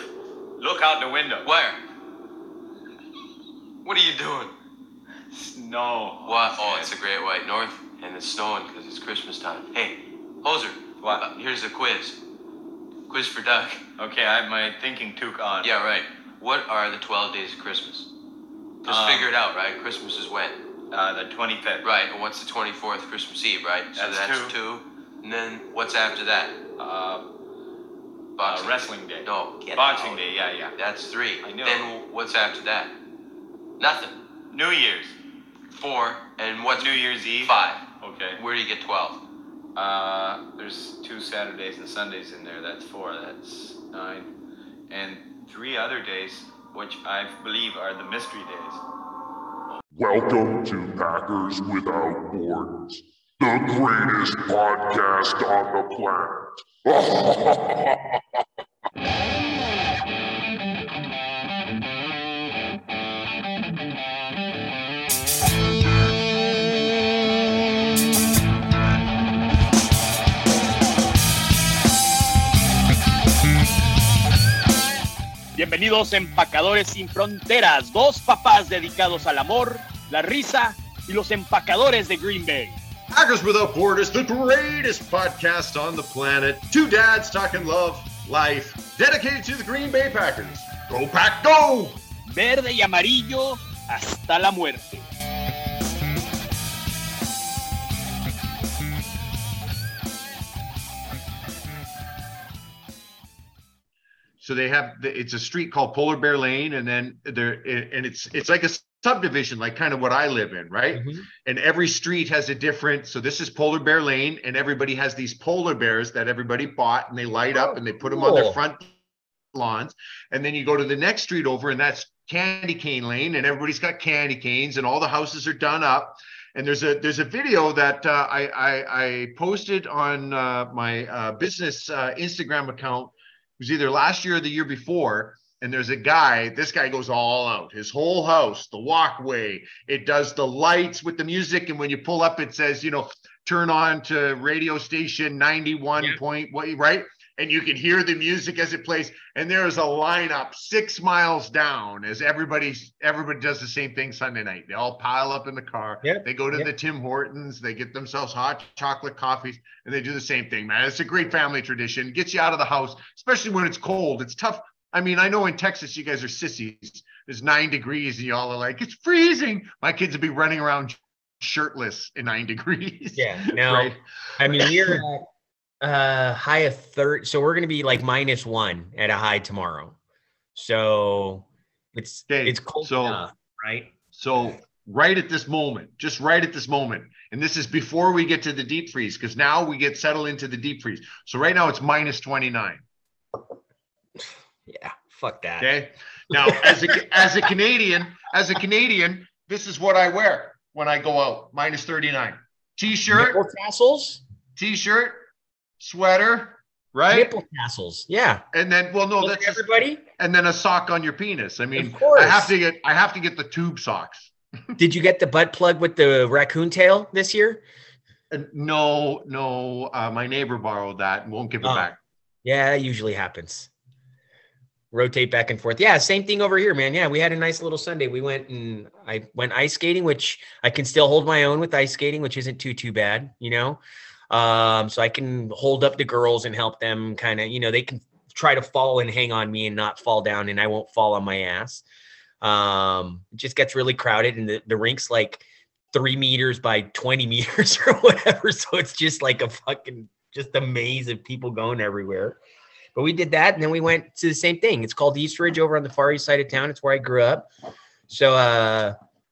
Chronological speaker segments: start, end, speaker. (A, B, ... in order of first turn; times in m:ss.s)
0:00.6-0:01.5 A
0:01.4-0:01.8 B
0:03.8-0:04.5 B
0:05.3-0:06.9 A
0:06.2-0:12.2 B
0:11.0-0:11.2 A
0:13.1-0:13.8 B
0:14.0-0:15.7 A
0:15.6-0:18.1 B
0:18.8-0:20.6 B
0:18.8-0:19.3 A
0:20.9-0:21.9 A
0:21.8-0:26.5 B
0:23.9-0:24.6 A
0:26.8-0:27.3 A
0:28.4-0:30.2 B
0:28.4-0:30.7 A
0:30.7-0:32.9 B
0:31.4-0:31.9 A
0:33.8-0:34.1 B
0:34.5-0:35.2 A
0:35.7-0:37.8 B
0:36.7-0:38.4 A
0:38.4-0:39.2 B
0:39.7-0:44.3 A
0:44.9-0:48.8 A
0:49.9-0:58.0 C
1:15.6-1:22.8 D
1:23.1-1:32.0 E
1:32.3-1:35.0 D
1:44.4-1:58.9 E
1:50.9-1:51.3 F
1:57.5-1:58.6 F
1:59.5-2:55.0 E
2:36.0-2:36.7 F
2:53.2-2:55.2 F
2:55.8-3:00.0 F
3:00.6-3:03.9 F
3:02.3-3:03.2 E
3:04.1-3:12.8 E
3:14.7-3:15.7 F
3:15.6-3:23.4 E
3:16.4-3:17.1 F
3:23.1-3:24.2 F
3:24.6-3:25.2 E
3:25.8-3:27.3 E
3:27.1-3:28.4 F
3:28.5-3:34.3 E
3:29.2-3:30.0 F
3:31.7-3:32.5 F
3:34.8-3:37.6 F
3:38.3-3:42.0 E
3:41.6-3:41.9 F
3:42.4-3:43.7 F
3:44.9-4:01.8 F
4:02.4-4:12.4 F
4:12.9-4:17.5 F
4:18.1-4:18.9 F